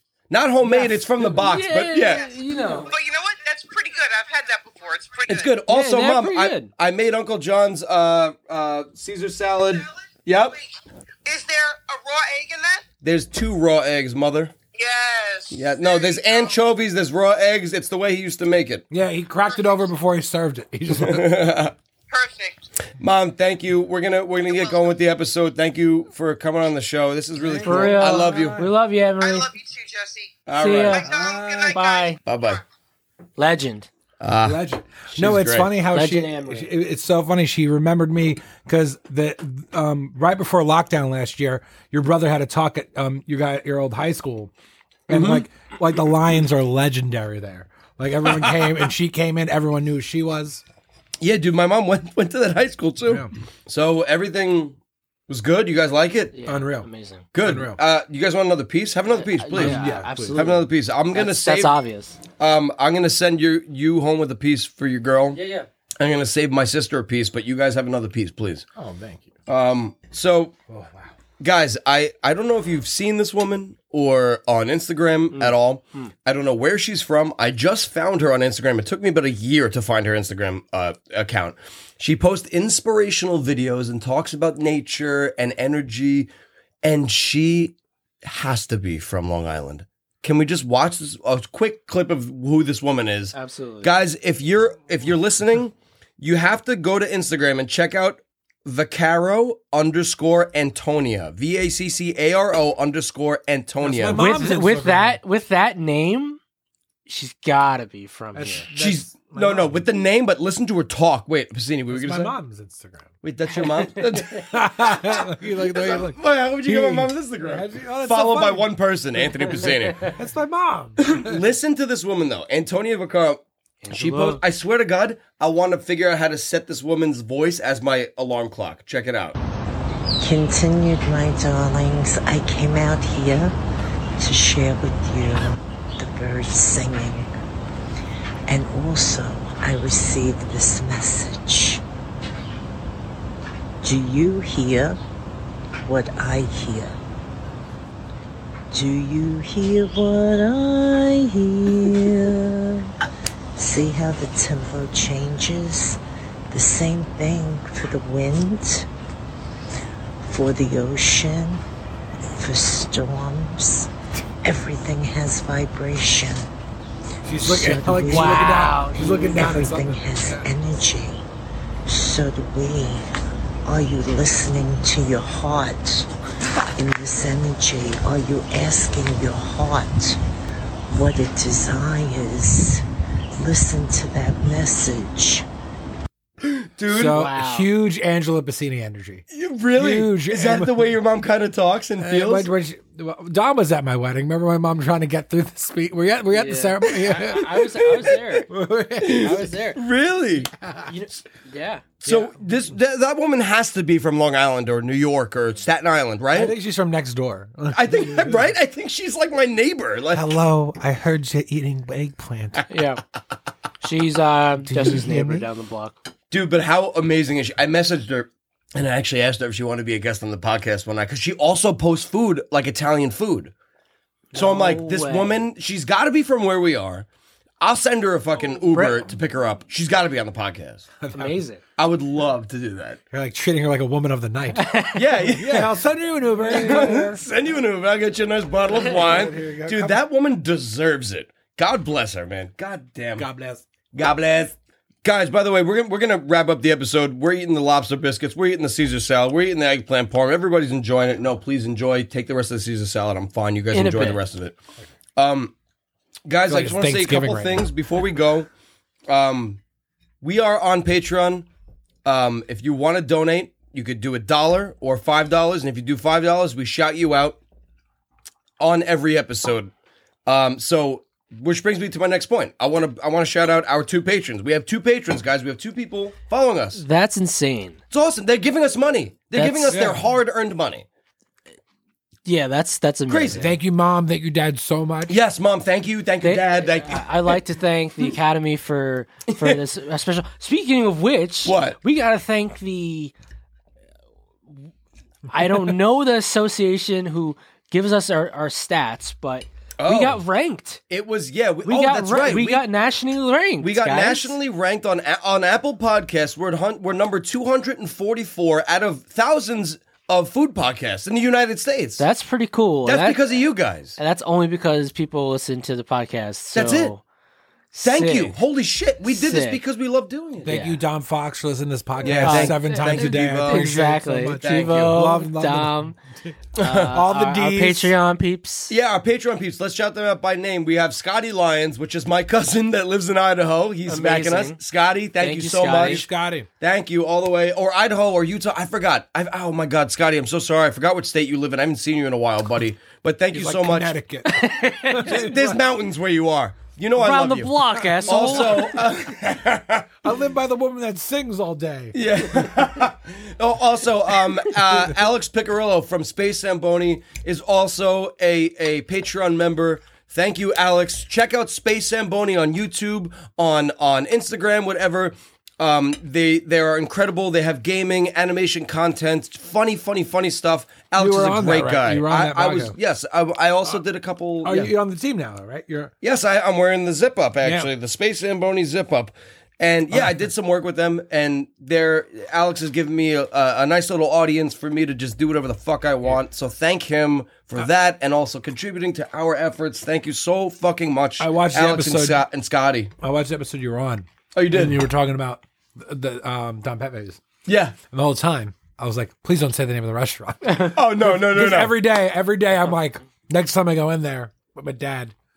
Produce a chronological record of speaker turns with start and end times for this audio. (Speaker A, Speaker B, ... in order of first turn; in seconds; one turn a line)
Speaker A: 0.3-2.3
Speaker B: 0.6-2.9
Speaker C: 2.9-5.5
Speaker A: 5.3-10.6
Speaker B: 5.7-6.7
Speaker C: 11.2-12.8
Speaker A: 13.0-14.5
Speaker C: 14.7-16.6
Speaker A: 15.5-18.8
Speaker D: 18.9-21.4
Speaker C: 19.5-19.9
Speaker A: 20.9-21.7
Speaker C: 22.1-22.6
Speaker A: 23.0-28.6
Speaker C: 24.4-24.9
Speaker D: 27.4-28.7
Speaker B: 27.6-29.5
Speaker C: 29.2-32.6
Speaker A: 30.5-31.1
Speaker B: 30.6-31.1
Speaker D: 31.0-31.8
Speaker B: 31.7-32.2
Speaker A: 32.2-32.6
Speaker B: 33.4-33.9
Speaker A: 34.2-34.6
Speaker D: 34.4-44.5
Speaker A: 35.1-35.7
Speaker B: 35.9-36.7
Speaker D: 45.1-50.6
Speaker A: 45.1-45.4
Speaker A: 48.2-48.9
Speaker A: 51.2-54.8
Speaker A: 55.3-56.3
Speaker B: 56.3-57.2
Speaker D: 56.5-56.9
Speaker A: 57.3-61.8
Speaker D: 57.4-57.8
Speaker B: 59.1-62.2
Speaker D: 59.5-60.5
Speaker A: 62.4-65.4
Speaker B: 65.3-65.7
Speaker A: 66.0-68.6
Speaker D: 68.8-69.3
Speaker A: 69.5-70.5
Speaker D: 70.7-71.1
Speaker A: 71.4-86.3
Speaker B: 75.3-76.1
Speaker A: 86.8-104.2
Speaker B: 93.3-93.9
Speaker D: 103.8-105.2
Speaker B: 104.1-106.4
Speaker B: 107.1-108.7
Speaker D: 108.3-109.8
Speaker A: 108.8-112.3
Speaker D: 111.9-113.1
Speaker A: 113.2-120.1
Speaker B: 113.5-114.0
Speaker D: 114.0-121.4
Speaker A: 121.0-129.4
Speaker B: 123.8-124.4
Speaker E: 130.2-133.6
Speaker E: 134.2-137.3
Speaker E: 138.5-141.8
Speaker E: 143.8-145.0
Speaker E: 145.8-147.0
Speaker E: 148.7-152.9
Speaker E: 153.6-158.9
Speaker E: 160.2-161.6
Speaker E: 162.3-163.9
Speaker E: 164.4-166.5
Speaker D: 167.2-170.5
Speaker E: 167.3-171.3
Speaker B: 168.0-169.5
Speaker E: 171.8-173.1
Speaker E: 173.6-176.1
Speaker E: 176.8-180.2
Speaker E: 180.9-182.8
Speaker E: 183.3-185.4
Speaker A: 186.4-187.3
Speaker D: 186.9-190.9
Speaker B: 187.1-187.7
Speaker A: 189.3-192.5
Speaker D: 192.0-199.5
Speaker B: 196.3-198.5
Speaker A: 199.0-200.5
Speaker B: 199.1-199.8
Speaker D: 200.6-200.9
Speaker B: 200.8-201.8
Speaker A: 202.0-206.6
Speaker D: 202.1-202.4
Speaker D: 206.3-208.4
Speaker A: 207.7-210.3
Speaker D: 210.1-212.7
Speaker B: 212.7-213.0
Speaker B: 213.8-216.0
Speaker D: 214.7-215.4
Speaker A: 216.3-223.5
Speaker B: 224.3-225.4
Speaker A: 224.3-227.1
Speaker A: 227.6-230.9
Speaker B: 228.7-229.1
Speaker D: 231.0-231.4
Speaker B: 231.1-231.6
Speaker A: 231.8-233.0
Speaker D: 233.1-237.2
Speaker B: 234.5-235.0
Speaker A: 234.9-235.8
Speaker A: 236.4-243.3
Speaker D: 238.7-240.0
Speaker D: 243.2-243.6
Speaker A: 243.9-254.6
Speaker B: 253.7-254.2
Speaker A: 255.2-255.5
Speaker A: 256.3-258.5
Speaker D: 256.5-257.7
Speaker A: 259.1-259.6
Speaker A: 260.2-261.5
Speaker A: 262.0-267.4
Speaker A: 268.6-269.7
Speaker A: 270.2-276.8
Speaker B: 276.7-277.8
Speaker A: 277.9-280.9
Speaker B: 279.3-279.9
Speaker D: 279.7-280.0
Speaker B: 282.2-283.5
Speaker A: 283.1-283.5
Speaker D: 283.4-285.1
Speaker A: 285.1-287.3
Speaker B: 286.2-293.1
Speaker A: 289.3-289.6
Speaker A: 291.4-291.8
Speaker B: 295.3-300.8
Speaker A: 299.8-300.2
Speaker A: 300.9-302.6
Speaker B: 301.6-304.4
Speaker A: 303.6-312.0
Speaker B: 312.0-313.4
Speaker A: 312.8-313.9
Speaker B: 314.0-317.0
Speaker A: 316.5-316.9
Speaker B: 317.7-318.3
Speaker A: 317.8-320.5
Speaker B: 319.0-319.6
Speaker D: 320.4-326.3
Speaker B: 320.4-320.8
Speaker A: 322.0-323.9
Speaker B: 322.2-326.0
Speaker A: 324.4-325.0
Speaker A: 326.6-327.0
Speaker B: 326.6-328.7
Speaker D: 326.9-327.9
Speaker A: 328.7-336.1
Speaker B: 333.9-334.6
Speaker B: 335.2-336.0
Speaker D: 335.8-336.5
Speaker A: 336.6-343.9
Speaker D: 343.4-345.6
Speaker B: 344.2-345.2
Speaker A: 345.0-349.9
Speaker B: 347.0-348.8
Speaker D: 347.8-348.9
Speaker D: 350.0-352.6
Speaker A: 351.9-374.7
Speaker D: 371.0-372.7
Speaker D: 374.4-375.9
Speaker A: 376.0-392.9
Speaker D: 377.4-377.7
Speaker D: 391.2-392.2
Speaker D: 393.0-397.2
Speaker A: 394.3-394.8
Speaker A: 397.4-397.8
Speaker D: 397.9-405.1
Speaker A: 400.7-401.8